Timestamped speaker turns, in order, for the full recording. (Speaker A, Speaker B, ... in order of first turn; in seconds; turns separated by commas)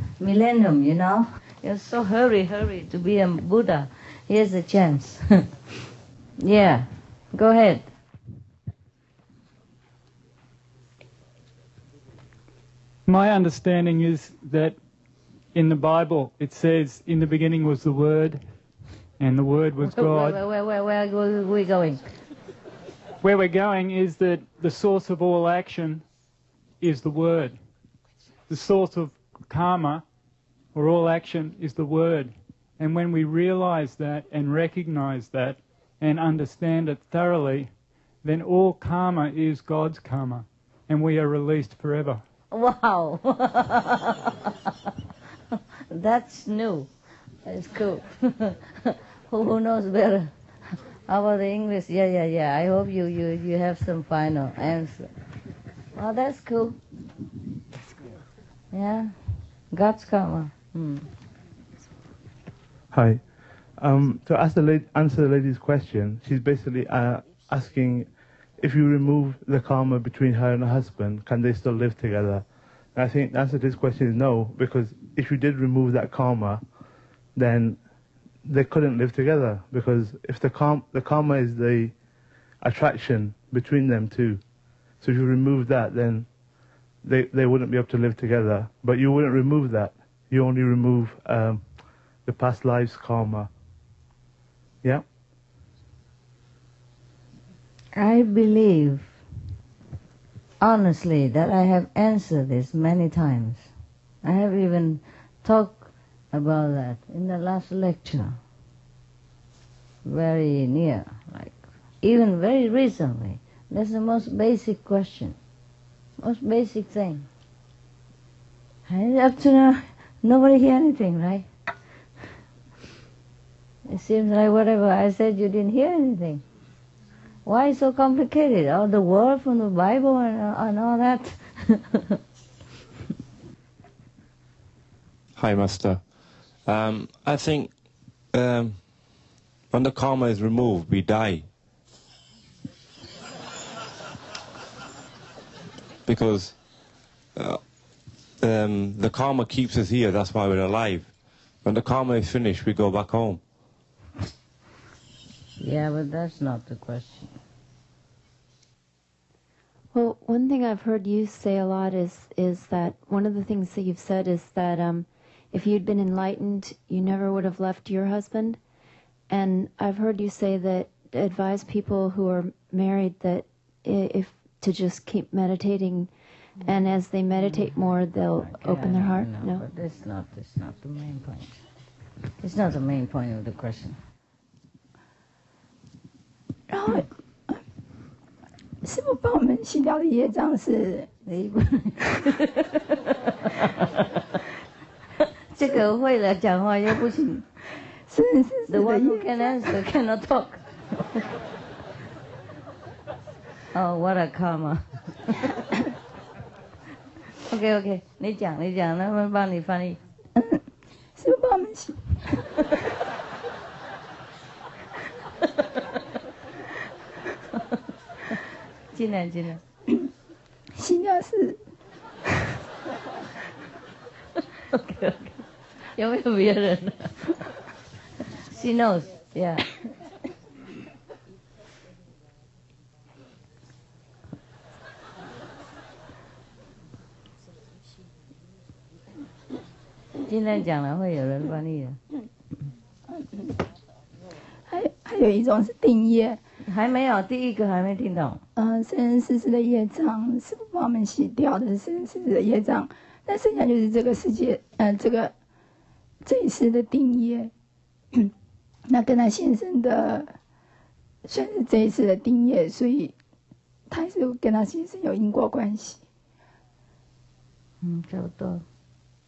Speaker A: 0.2-5.4, Speaker A: 6.4-7.9, Speaker B: 13.1-14.8, Speaker B: 15.5-18.4, Speaker B: 19.2-20.4, Speaker A: 19.8-22.1, Speaker B: 23.2-26.1, Speaker B: 26.8-27.6, Speaker B: 28.5-30.0, Speaker B: 30.7-42.2, Speaker A: 42.5-44.5, Speaker A: 45.9-46.9, Speaker A: 47.5-50.3, Speaker A: 51.1-55.1, Speaker A: 56.0-56.8, Speaker A: 58.7-59.2, Speaker A: 59.7-61.1, Speaker C: 62.9-63.2, Speaker C: 63.8-76.6, Speaker C: 77.4-77.8, Speaker C: 78.5-81.9, Speaker C: 82.6-84.4, Speaker C: 85.0-86.3, Speaker C: 87.0-91.7, Speaker C: 92.2-93.5, Speaker A: 98.0-99.1, Speaker A: 100.6-103.7, Speaker A: 104.2-108.4, Speaker A: 110.0-115.4, Speaker A: 116.2-117.3, Speaker A: 118.9-121.5, Speaker A: 123.9-126.4, Speaker A: 127.5-132.0, Speaker D: 135.4-137.8, Speaker D: 138.3-139.0, Speaker D: 139.7-141.5, Speaker D: 146.1-146.6, Speaker D: 147.4-147.7, Speaker D: 148.4-151.1, Speaker D: 151.6-153.4, Speaker A: 155.6-157.3, Speaker E: 159.9-168.6, Speaker E: 169.3-179.7, Speaker A: 177.4-181.6, Speaker A: 182.4-184.0, Speaker F: 186.7-187.6, Speaker F: 188.8-191.2, Speaker A: 191.2-192.7, Speaker A: 195.5-197.5, Speaker F: 198.1-199.7, Speaker A: 198.7-200.8, Speaker A: 203.7-204.9, Speaker A: 207.5-210.0, Speaker F: 211.2-212.2, Speaker A: 218.9-219.6, Speaker F: 220.8-221.6, Speaker A: 224.7-225.4, Speaker A: 225.9-227.4, Speaker A: 228.5-229.8, Speaker A: 240.2-242.0, Speaker F: 244.7-246.4, Speaker A: 246.7-248.4, Speaker F: 248.6-255.3, Speaker F: 256.2-257.5, Speaker F: 258.9-260.4, Speaker F: 261.3-263.1, Speaker F: 263.9-266.0, Speaker A: 267.8-268.6